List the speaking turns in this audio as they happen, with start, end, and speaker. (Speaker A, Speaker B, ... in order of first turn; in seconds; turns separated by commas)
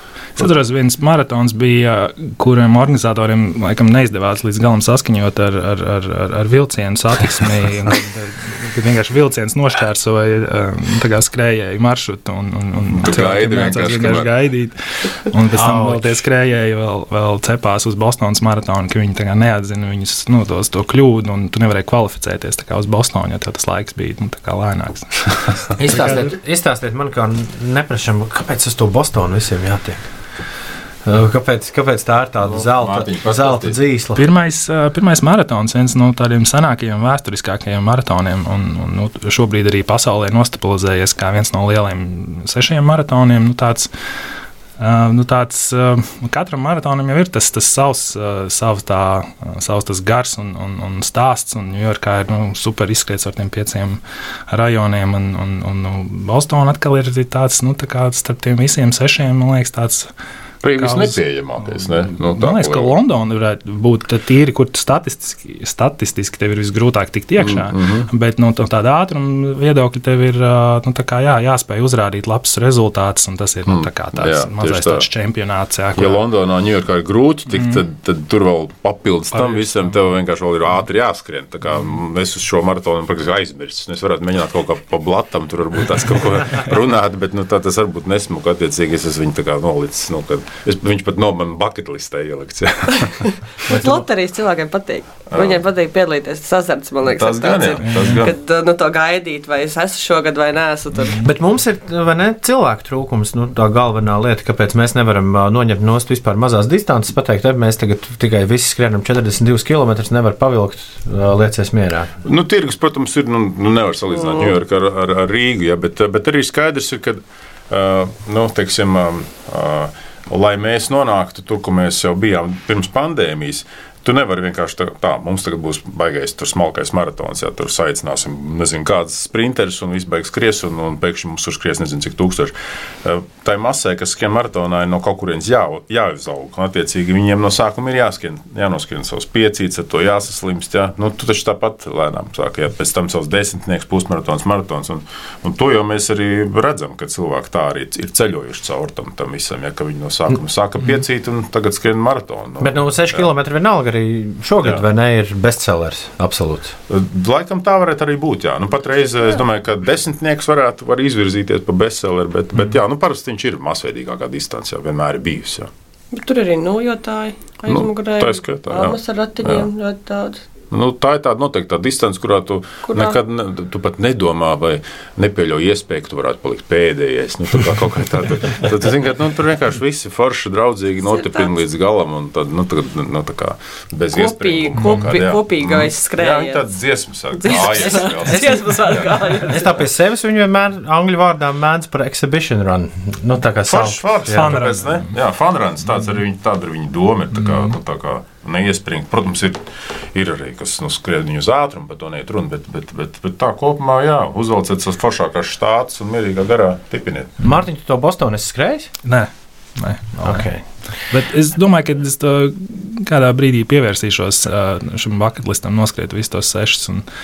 Speaker A: 0.3-25.4, Speaker B: 12.9-14.3, Speaker C: 15.5-16.2, Speaker C: 25.8-30.1, Speaker C: 31.0-34.2, Speaker B: 32.4-33.8, Speaker A: 34.2-43.9, Speaker A: 44.8-60.1, Speaker B: 60.6-62.9, Speaker A: 60.8-76.2, Speaker B: 67.4-68.1, Speaker B: 73.7-75.0, Speaker B: 76.0-93.3, Speaker A: 79.3-79.8, Speaker D: 93.6-101.2, Speaker C: 93.7-94.0, Speaker B: 95.3-95.6, Speaker B: 97.0-98.3, Speaker A: 97.8-98.2, Speaker C: 101.2-112.1, Speaker B: 112.2-132.5, Speaker B: 133.0-153.3, Speaker C: 152.6-156.8, Speaker B: 156.9-165.7, Speaker D: 166.1-170.4, Speaker B: 167.7-169.7, Speaker B: 170.7-189.7, Speaker D: 172.8-173.2, Speaker D: 181.1-181.5, Speaker D: 184.1-186.7, Speaker A: 184.8-185.1, Speaker D: 187.4-189.8, Speaker C: 187.5-194.6, Speaker B: 193.7-199.6, Speaker A: 194.3-195.1, Speaker A: 197.4-197.7, Speaker B: 200.1-207.4, Speaker C: 207.4-208.9, Speaker A: 209.0-210.5, Speaker C: 210.2-210.6, Speaker A: 211.1-217.0